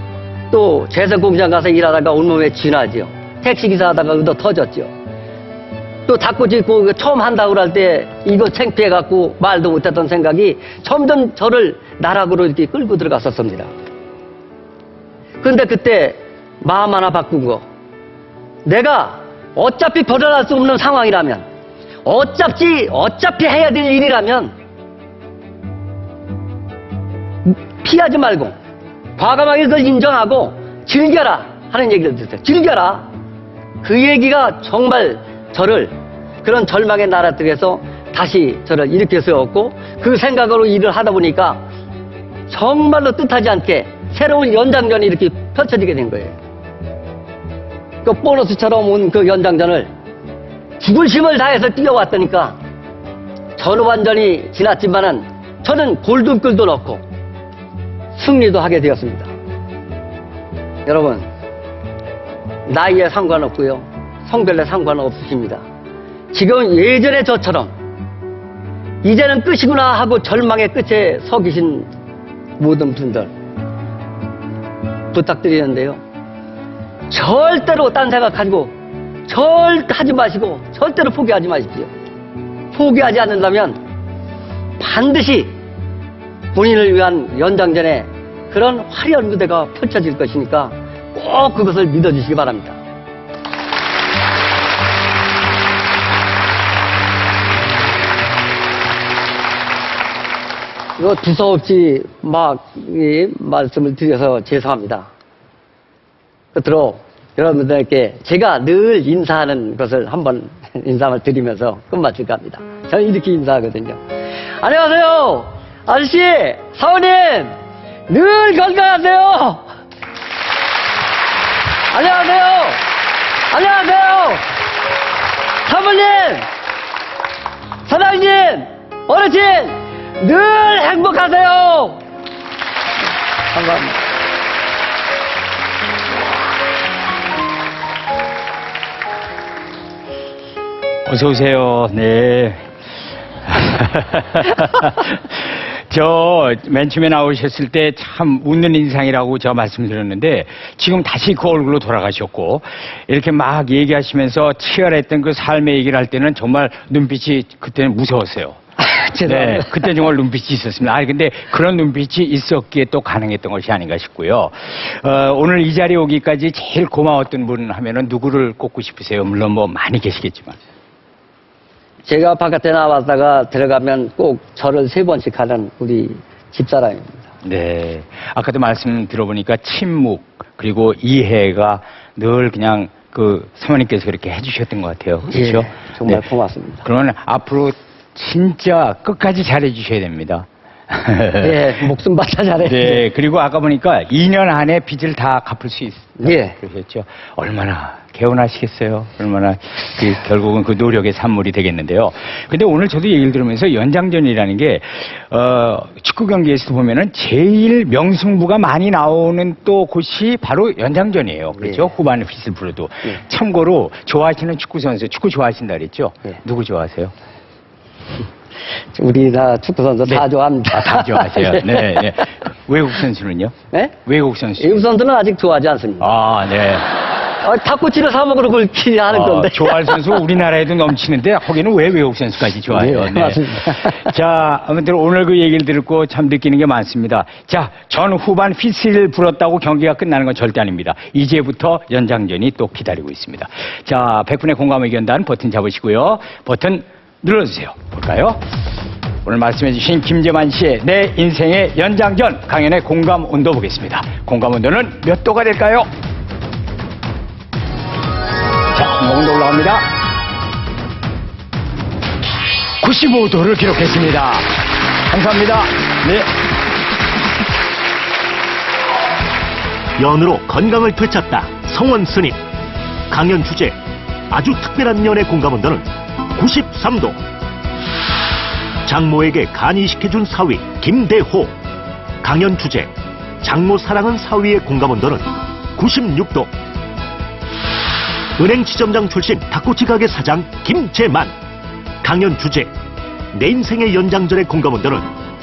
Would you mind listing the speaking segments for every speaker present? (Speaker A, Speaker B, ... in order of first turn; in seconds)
Speaker A: 0.5-4.9, 6.1-13.7, 15.4-17.6, 18.6-21.4, 22.0-24.5, 27.4-28.5, 29.2-33.1, 33.8-41.6, 42.5-46.4, 48.0-49.9, 50.8-52.5, 53.6-57.0, 58.1-59.3, 60.9-61.2, 62.6-65.6, 66.3-67.7, 69.0-71.9, 72.6-73.3, 75.1-76.0, 77.1-78.7, 79.3-81.9, 82.7-83.8, 84.8-85.5, 86.5-92.8, 101.0-105.1, 106.5-114.0, 114.6-117.5, 118.1-119.6, 121.9-122.8, 123.5-124.5, 125.7-126.5, 127.9-132.0, 133.5-133.9, 158.8-160.1, 172.1-177.2, 185.3-186.8, 191.4-193.0, 196.2-196.6, 211.6-211.8, 218.9-221.9, 224.6-226.1, 227.4-230.2, 232.7-234.1
Speaker B: 141.0-142.7, 143.4-158.6, 159.2-170.6, 177.4-186.2, 186.8-191.6, 192.6-217.1, 220.1-224.7, 226.0-226.8, 229.1-248.4, 249.2-255.9, 258.7-259.9, 262.8-266.3
Speaker C: 270.0-272.4, 273.1-273.8, 274.3-277.2, 278.9-281.5, 282.2-286.5, 288.4-291.3, 292.0-292.7, 293.3-295.1